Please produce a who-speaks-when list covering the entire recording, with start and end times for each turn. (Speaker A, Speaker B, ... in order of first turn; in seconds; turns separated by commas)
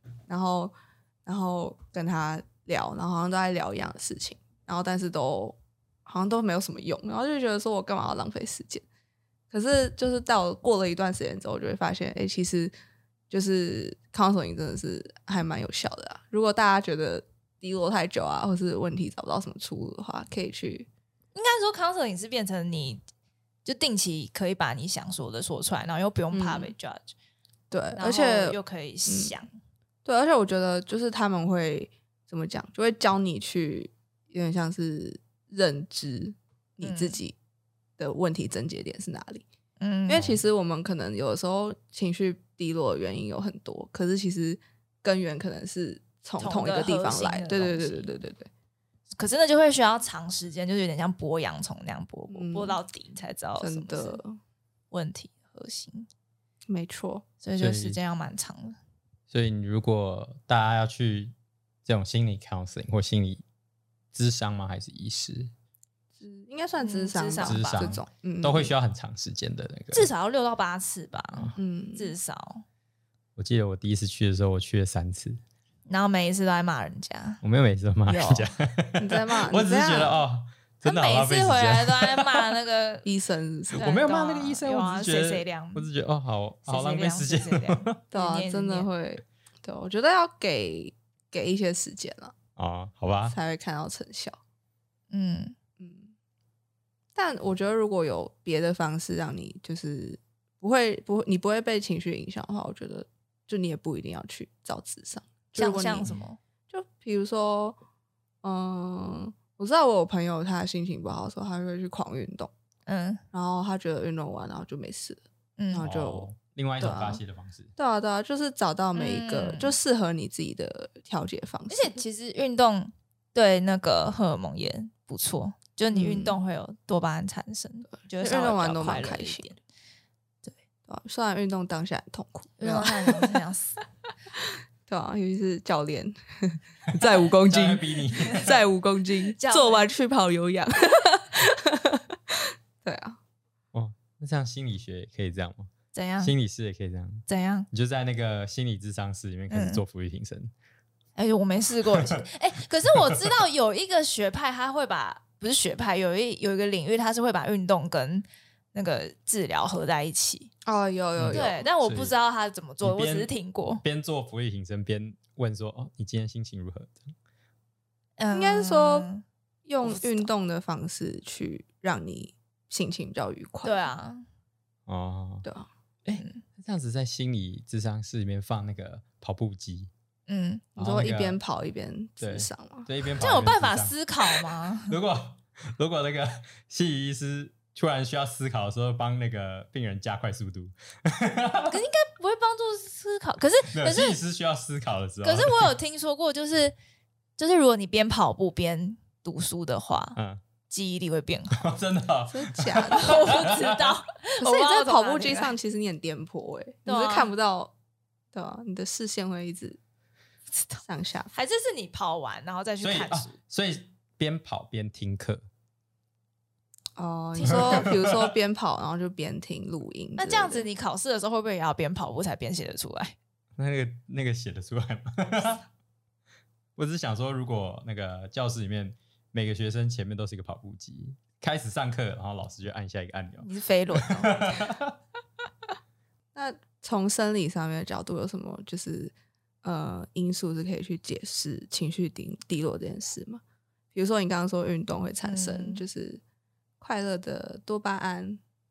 Speaker A: 0.3-0.7, Speaker A: 1.3-8.8, Speaker A: 9.5-12.7, Speaker A: 13.3-20.9, Speaker B: 21.3-23.0, Speaker B: 23.6-27.1, Speaker A: 26.3-26.7, Speaker A: 27.7-29.3, Speaker B: 28.0-29.5, Speaker A: 30.1-37.4, Speaker B: 36.8-37.2, Speaker A: 38.0-39.5, Speaker B: 39.8-40.2, Speaker A: 40.1-48.5, Speaker C: 40.1-40.4, Speaker B: 46.4-48.1, Speaker B: 49.2-54.2, Speaker A: 52.3-52.8, Speaker A: 53.6-54.4, Speaker B: 54.9-56.1, Speaker A: 56.7-57.3, Speaker B: 57.4-58.8, Speaker C: 57.6-58.0, Speaker C: 59.3-61.3, Speaker C: 61.9-63.4, Speaker C: 64.1-65.5, Speaker A: 66.2-68.7, Speaker B: 66.8-68.0, Speaker C: 67.4-70.1, Speaker B: 69.9-72.6, Speaker A: 71.6-72.2, Speaker C: 73.4-75.4, Speaker B: 75.9-77.4, Speaker C: 77.4-82.5, Speaker B: 78.1-78.5, Speaker A: 79.0-80.2, Speaker B: 80.8-83.1, Speaker A: 83.0-84.0, Speaker C: 83.7-88.0, Speaker B: 83.8-85.9, Speaker B: 86.7-88.9, Speaker A: 88.1-92.3, Speaker C: 92.6-93.4, Speaker A: 93.3-94.4, Speaker B: 95.1-95.5, Speaker A: 95.8-96.1, Speaker A: 97.2-106.1, Speaker B: 105.6-106.4, Speaker A: 106.7-107.8, Speaker A: 108.4-112.5, Speaker B: 112.9-113.2, Speaker A: 113.3-116.3, Speaker B: 115.6-115.9, Speaker C: 115.8-117.7, Speaker A: 116.8-117.2, Speaker A: 117.8-122.0, Speaker B: 119.0-119.8, Speaker B: 121.7-129.6, Speaker A: 125.9-126.4, Speaker A: 128.1-129.5, Speaker A: 130.9-133.4, Speaker B: 132.6-133.8, Speaker A: 134.9-143.2, Speaker C: 136.9-138.6, Speaker B: 139.4-139.9, Speaker C: 143.7-150.5, Speaker B: 145.9-146.3, Speaker B: 147.3-147.7, Speaker B: 149.5-149.8, Speaker B: 151.2-160.5, Speaker A: 160.7-161.6, Speaker C: 161.2-162.2, Speaker B: 161.3-163.8, Speaker C: 162.8-167.2, Speaker B: 168.2-169.2, Speaker A: 168.3-169.1, Speaker A: 169.7-173.9, Speaker B: 169.8-170.3, Speaker B: 173.6-174.3, Speaker C: 174.9-175.5, Speaker C: 176.1-179.9, Speaker B: 180.3-180.7, Speaker C: 180.8-181.4, Speaker A: 180.8-182.9, Speaker C: 182.2-184.0, Speaker B: 183.2-185.0, Speaker C: 184.8-191.8, Speaker B: 191.7-194.2, Speaker C: 193.7-195.7, Speaker B: 195.2-196.8, Speaker B: 197.4-200.2, Speaker C: 200.2-200.4, Speaker B: 200.7-201.7, Speaker C: 201.5-203.9, Speaker A: 202.3-203.4, Speaker B: 202.9-205.5, Speaker A: 204.4-207.7, Speaker B: 206.9-207.3, Speaker A: 208.3-209.8, Speaker A: 210.7-211.3, Speaker B: 211.3-213.3, Speaker C: 212.8-215.5, Speaker A: 217.0-220.7, Speaker B: 217.4-217.9, Speaker C: 217.4-218.3, Speaker B: 220.2-223.2, Speaker C: 223.6-225.6, Speaker C: 226.8-235.0, Speaker B: 233.4-234.4, Speaker A: 236.3-243.4, Speaker A: 243.9-246.2, Speaker B: 245.2-245.8, Speaker A: 246.8-248.4